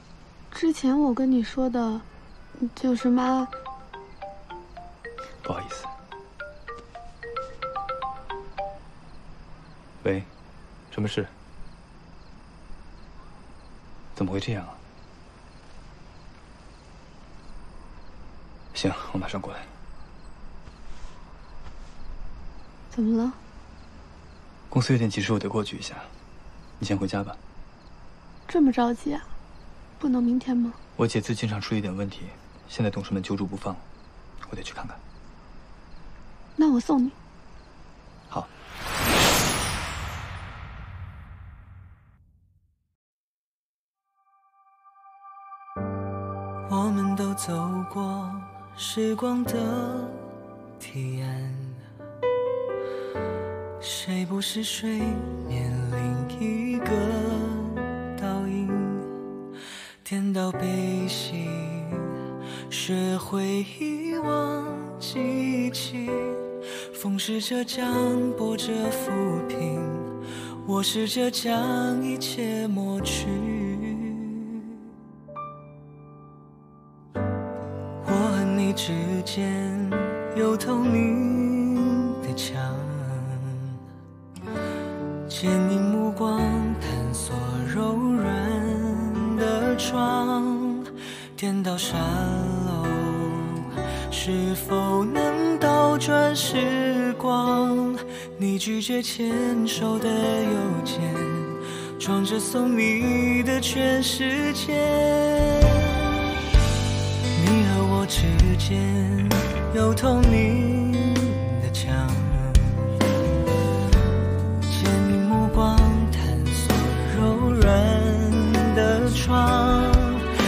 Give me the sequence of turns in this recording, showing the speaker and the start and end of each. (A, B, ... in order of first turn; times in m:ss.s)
0:00.5-0:02.0 A
0:02.6-0:03.5 A
0:05.4-0:05.9 B
0:10.0-0:10.3 B
0:10.9-0:11.3 B
0:14.1-0:14.8 B
0:18.7-0:19.7 B
0:22.9-0:23.4 A
0:24.7-0:26.1 B
0:26.8-0:27.4 B
0:28.5-0:29.3 A
0:30.0-0:30.8 A
0:31.0-0:33.8 B
0:34.4-0:35.0 B
0:36.6-0:37.1 A
0:46.6-0:50.2 C
0:50.8-0:51.8 C
0:53.8-0:59.1 C
1:00.0-1:02.1 C
1:02.7-1:14.6 C
1:18.0-1:23.8 C
1:25.3-1:45.8 C
1:47.3-1:52.9 C
1:54.7-2:00.2 C